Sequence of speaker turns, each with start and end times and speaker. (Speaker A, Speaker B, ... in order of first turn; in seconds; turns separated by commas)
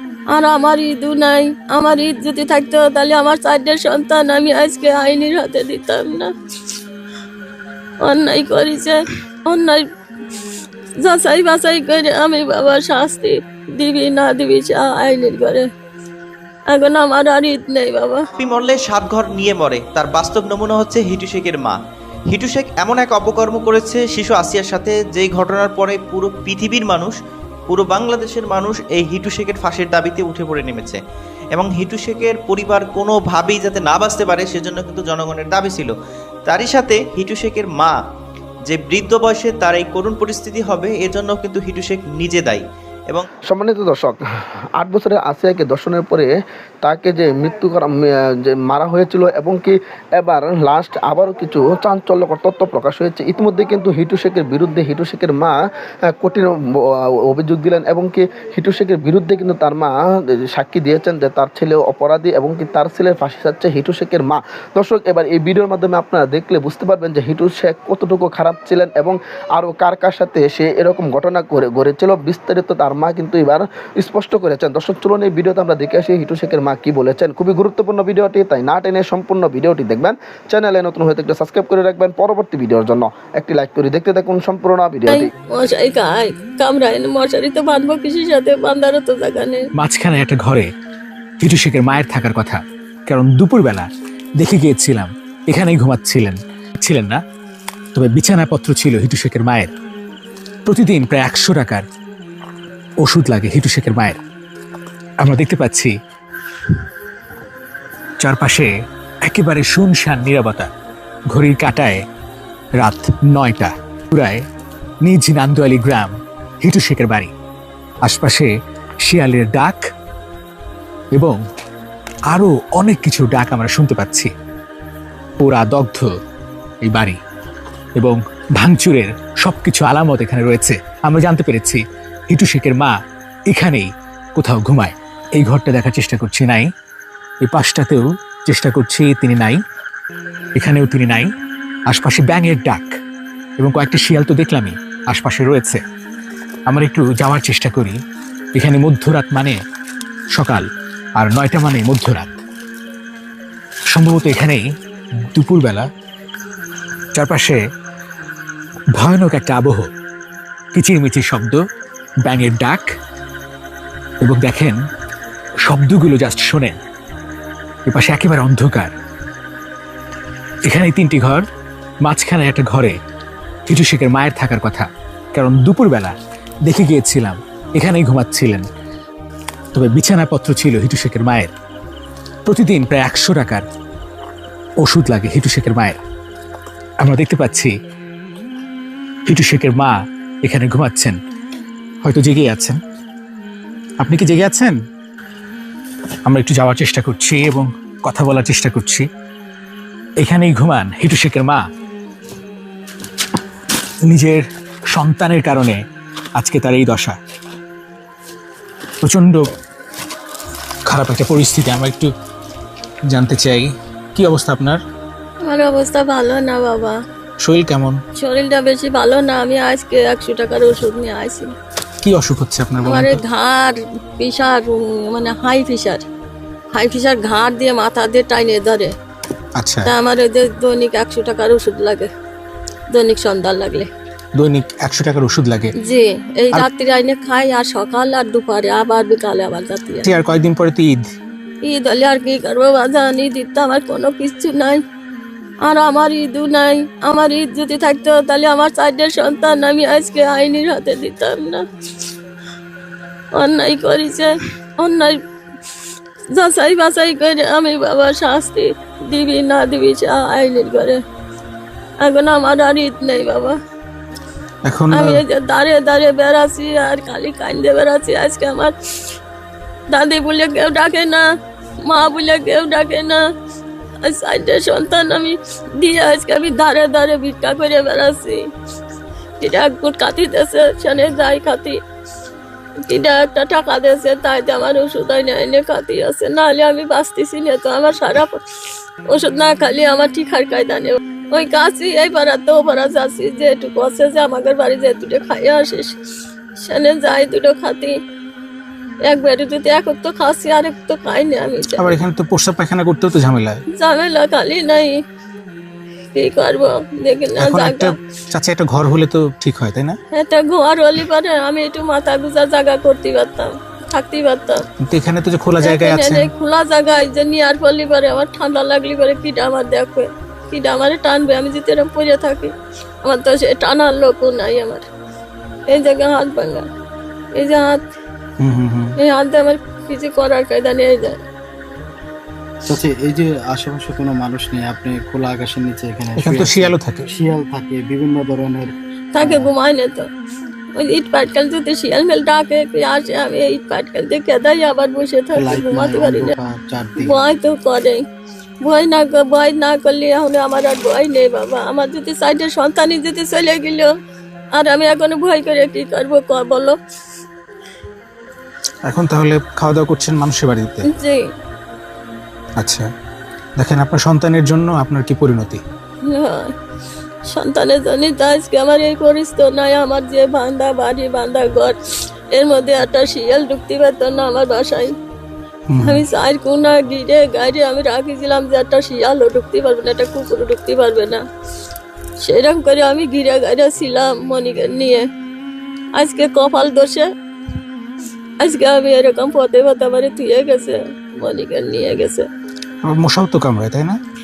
Speaker A: 0.3-6.3, Speaker A: 8.0-9.8, Speaker A: 11.0-15.7, Speaker A: 16.7-18.3, Speaker B: 18.4-21.8, Speaker B: 22.3-27.1, Speaker B: 27.7-31.0, Speaker B: 31.5-35.9, Speaker B: 36.5-38.0, Speaker B: 38.6-43.2, Speaker C: 43.5-44.2, Speaker C: 44.7-46.3, Speaker C: 46.8-55.5, Speaker C: 56.1-59.9, Speaker C: 60.5-85.3, Speaker A: 85.1-89.7, Speaker D: 89.8-90.7, Speaker D: 91.4-93.9, Speaker D: 94.4-97.2, Speaker D: 97.9-99.7, Speaker D: 100.7-101.8, Speaker D: 103.0-104.2, Speaker D: 105.2-105.9, Speaker D: 108.2-108.7, Speaker D: 109.2-110.7, Speaker D: 111.3-112.0, Speaker D: 112.8-114.4, Speaker D: 115.0-116.1, Speaker D: 116.6-117.3, Speaker D: 118.0-118.5, Speaker D: 119.0-119.8, Speaker D: 122.3-124.3, Speaker D: 125.4-126.1, Speaker D: 126.8-127.2, Speaker D: 128.0-132.9, Speaker D: 133.5-136.7, Speaker D: 137.4-139.6, Speaker D: 140.6-141.3, Speaker D: 141.9-142.9, Speaker D: 143.6-145.8, Speaker D: 146.7-148.0, Speaker D: 148.5-149.6, Speaker D: 150.3-152.4, Speaker D: 153.9-154.6, Speaker D: 155.3-155.9, Speaker D: 157.1-157.6, Speaker D: 158.9-159.9, Speaker D: 160.7-161.6, Speaker D: 162.2-162.9, Speaker D: 164.2-164.8, Speaker D: 165.6-166.8, Speaker D: 167.9-168.9, Speaker D: 170.6-171.4, Speaker D: 172.0-172.9, Speaker D: 173.7-178.6, Speaker D: 179.7-181.5, Speaker D: 182.4-183.6, Speaker D: 184.8-186.0, Speaker D: 187.0-187.7, Speaker D: 189.2-191.2, Speaker D: 192.0-192.8, Speaker D: 194.0-194.7, Speaker D: 196.2-199.1, Speaker D: 200.2-201.6, Speaker D: 204.1-205.8, Speaker D: 206.3-207.2, Speaker D: 209.0-209.5, Speaker D: 210.8-212.1, Speaker D: 213.1-214.8, Speaker A: 215.4-217.0, Speaker D: 217.4-218.0, Speaker A: 218.2-221.5, Speaker D: 222.0-223.2, Speaker A: 222.8-226.0, Speaker A: 226.7-228.9, Speaker D: 229.6-229.9, Speaker A: 229.8-232.1, Speaker A: 232.9-233.9, Speaker D: 234.3-235.7, Speaker A: 235.8-240.1, Speaker D: 240.0-241.0, Speaker A: 241.6-244.8, Speaker A: 245.6-251.6, Speaker A: 253.3-255.2, Speaker A: 256.3-261.0, Speaker A: 262.0-263.6, Speaker D: 264.6-265.2, Speaker A: 264.9-268.7, Speaker A: 269.9-271.2, Speaker A: 271.8-273.2, Speaker A: 274.0-278.5, Speaker A: 279.4-281.8, Speaker A: 282.8-288.4, Speaker A: 289.1-295.9, Speaker A: 296.6-298.0, Speaker A: 299.0-302.0, Speaker D: 301.7-303.6, Speaker A: 303.7-305.0, Speaker A: 306.1-307.9, Speaker D: 307.4-310.0, Speaker A: 310.1-314.6, Speaker D: 314.8-316.3, Speaker A: 315.6-322.5, Speaker A: 323.0-324.8, Speaker A: 325.7-326.7, Speaker A: 327.3-327.8, Speaker D: 328.4-329.0, Speaker A: 329.0-331.2, Speaker E: 332.6-339.5, Speaker D: 336.2-337.1, Speaker A: 339.1-340.1, Speaker A: 340.7-346.4, Speaker E: 345.3-347.2, Speaker A: 347.0-348.0, Speaker A: 348.6-353.9, Speaker A: 354.5-356.8, Speaker D: 358.8-360.9, Speaker A: 360.9-361.3, Speaker D: 362.6-362.9, Speaker D: 363.6-365.6, Speaker A: 366.1-366.5, Speaker A: 367.2-371.8, Speaker A: 372.3-374.9, Speaker D: 375.7-376.0, Speaker A: 375.8-381.2, Speaker A: 382.2-385.1, Speaker A: 385.9-387.1, Speaker A: 388.4-392.3, Speaker D: 392.8-393.9